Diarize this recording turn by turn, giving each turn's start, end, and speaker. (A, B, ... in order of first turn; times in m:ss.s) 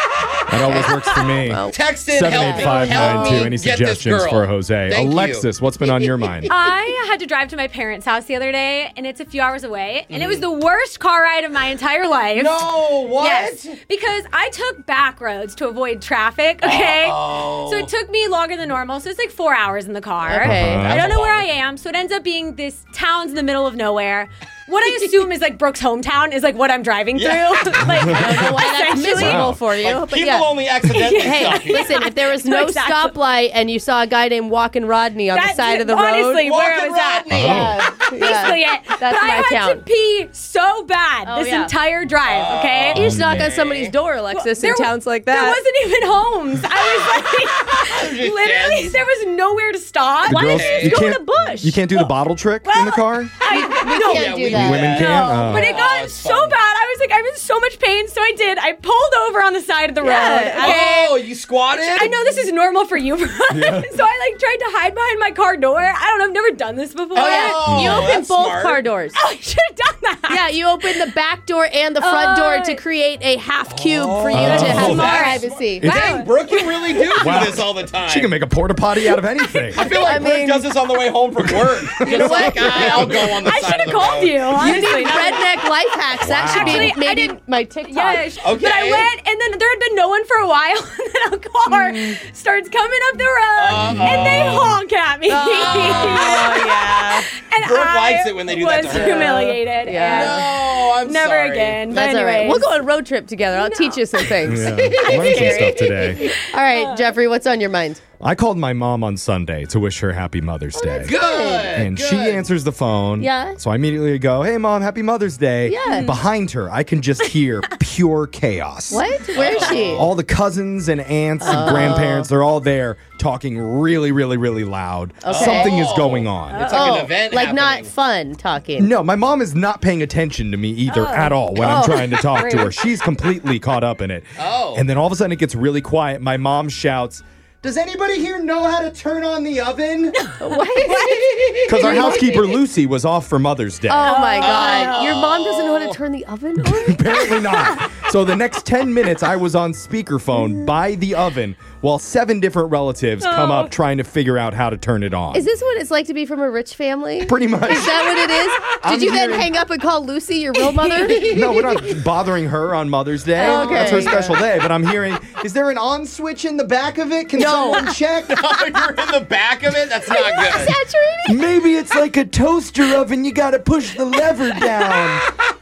0:00.5-0:06.6 A
0:00.6-0:03.5 B
0:00.8-0:01.3 C
0:01.7-0:06.5 D
0:02.5-0:03.5 C
0:06.5-0:29.5 C
0:10.1-0:10.4 D
0:12.3-0:13.8 D
0:16.6-0:17.9 D
0:20.2-0:20.9 B
0:20.4-0:21.1 A
0:20.9-0:21.4 D
0:27.1-0:28.0 D
0:28.0-0:30.5 B
0:28.0-0:28.5 A
0:29.1-0:29.6 A
0:29.7-0:32.0 D
0:30.8-0:33.2 C
0:31.1-0:36.4 B
0:35.3-0:43.1 C
0:36.4-0:37.8 D
0:37.3-0:37.8 A
0:37.4-0:39.8 B
0:41.3-0:41.7 B
0:42.2-0:43.9 D
0:42.9-0:45.6 B
0:42.9-0:43.5 A
0:44.3-0:51.2 C
0:47.7-0:49.0 D
0:50.2-0:53.3 A
0:50.3-0:51.0 D
0:50.8-0:51.8 B
0:52.6-1:01.2 C
0:53.5-0:55.1 B
0:54.0-0:56.6 D
0:54.5-0:55.7 A
1:00.0-1:00.9 B
1:00.4-1:02.2 D
1:01.8-1:07.9 C
1:03.5-1:04.0 A
1:07.1-1:08.8 D
1:07.2-1:09.2 B
1:07.6-1:08.1 A
1:09.1-1:11.0 C
1:10.3-1:15.9 B
1:12.0-1:12.8 C
1:13.7-1:18.3 D
1:14.3-1:15.1 A
1:14.4-1:17.5 C
1:15.8-1:16.2 A
1:17.2-1:19.8 A
1:19.2-1:20.2 C
1:19.7-1:24.6 D
1:20.0-1:20.7 B
1:21.4-1:23.3 A
1:22.0-1:23.2 B
1:22.1-1:25.7 C
1:24.6-1:28.3 B
1:26.2-1:26.9 A
1:26.4-1:42.7 C
1:28.4-1:29.1 D
1:31.7-1:32.2 B
1:33.6-1:34.8 D
1:33.7-1:34.6 A
1:35.3-1:37.3 B
1:35.5-1:36.7 D
1:37.6-1:42.0 D
1:39.0-1:40.5 B
1:41.9-1:45.7 B
1:43.5-1:44.0 C
1:44.5-1:46.2 A
1:44.5-1:46.2 D
1:45.0-1:47.1 C
1:46.4-1:48.0 B
1:48.2-1:51.2 A
1:50.7-1:51.8 B
1:51.0-1:52.4 D
1:51.7-1:59.0 A
1:53.2-1:53.6 B
1:55.7-1:56.2 B
1:55.8-1:56.2 C
1:58.9-2:00.1 B
1:59.3-2:00.1 D
1:59.8-2:06.6 A
2:01.4-2:02.3 B
2:05.2-2:05.8 B
2:05.3-2:07.9 D
2:06.5-2:07.0 C
2:06.7-2:08.9 B
2:08.8-2:20.3 A
2:10.9-2:13.0 C
2:11.6-2:12.2 B
2:14.4-2:14.8 D
2:20.3-2:21.2 C
2:20.4-2:22.5 B
2:21.4-2:21.8 D
2:21.6-2:24.2 A
2:21.8-2:22.5 C
2:23.9-2:27.3 B
2:24.0-2:25.2 C
2:24.4-2:26.0 D
2:26.6-2:35.4 A
2:27.3-2:27.9 C
2:33.2-2:33.7 C
2:35.3-2:41.6 B
2:37.2-2:38.1 A
2:38.8-2:39.5 A
2:41.1-2:41.9 D
2:41.2-2:48.0 A
2:43.4-2:44.2 C
2:43.4-2:44.4 B
2:47.3-2:48.0 B
2:47.5-2:50.7 D
2:50.0-2:51.6 B
2:51.3-2:55.3 A